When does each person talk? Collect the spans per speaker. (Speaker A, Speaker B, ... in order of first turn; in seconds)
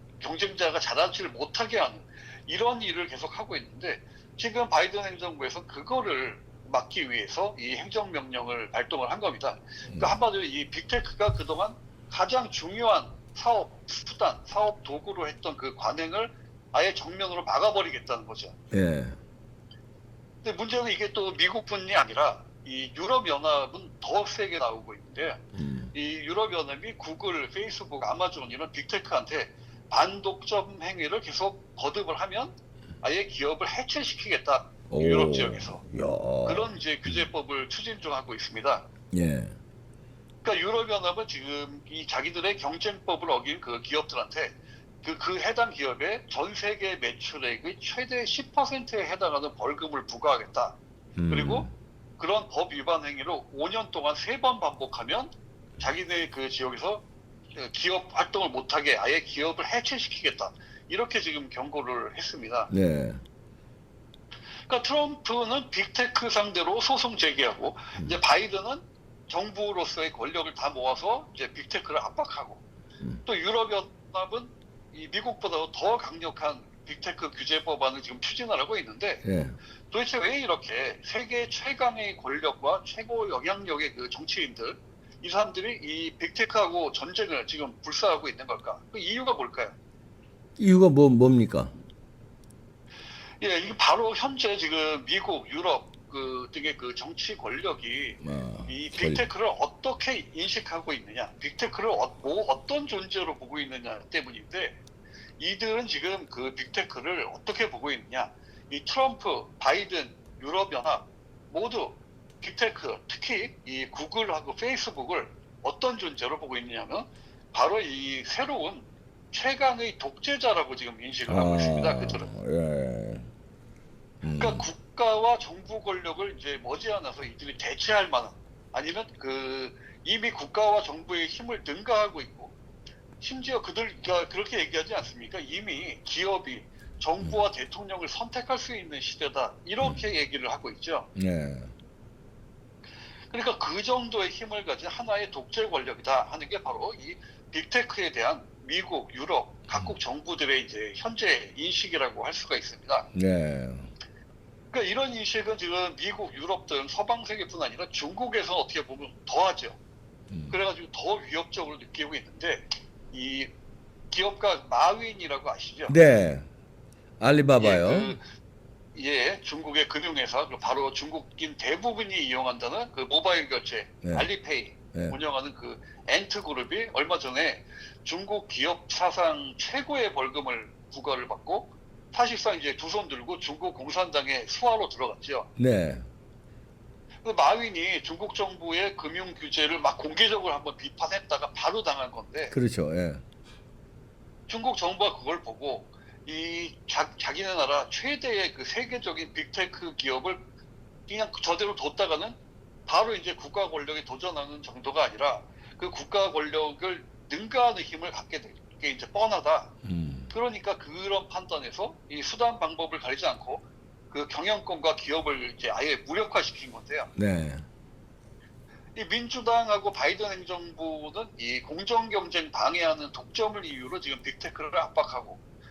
Speaker A: 0.2-18.5, 20.4-35.8, 36.5-38.9, 40.4-50.8, 51.3-62.7, 64.7-72.6, 73.2-79.2, 79.9-89.7, 93.4-104.8, 105.4-122.3, 124.3-132.5, 133.2-141.1, 143.3-153.1, 154.7-159.8, 160.5-163.5, 164.1-166.0, 167.6-168.2, 168.9-185.5, 187.2-192.6, 194.5-200.4, 201.1-209.7, 210.3-217.1, 218.9-225.4
Speaker B: 9.9-10.2, 18.7-19.2, 25.6-25.9, 34.9-37.1, 39.1-39.6, 51.2-51.7, 62.7-63.2, 79.2-79.6, 90.6-91.7, 98.2-99.2, 121.3-123.3, 124.2-124.7, 139.8-140.1, 141.2-141.7, 153.1-153.9, 160.3-160.5, 165.9-166.5, 167.2-168.2, 185.6-186.0, 192.5-193.2, 209.8-210.3, 217.2-217.6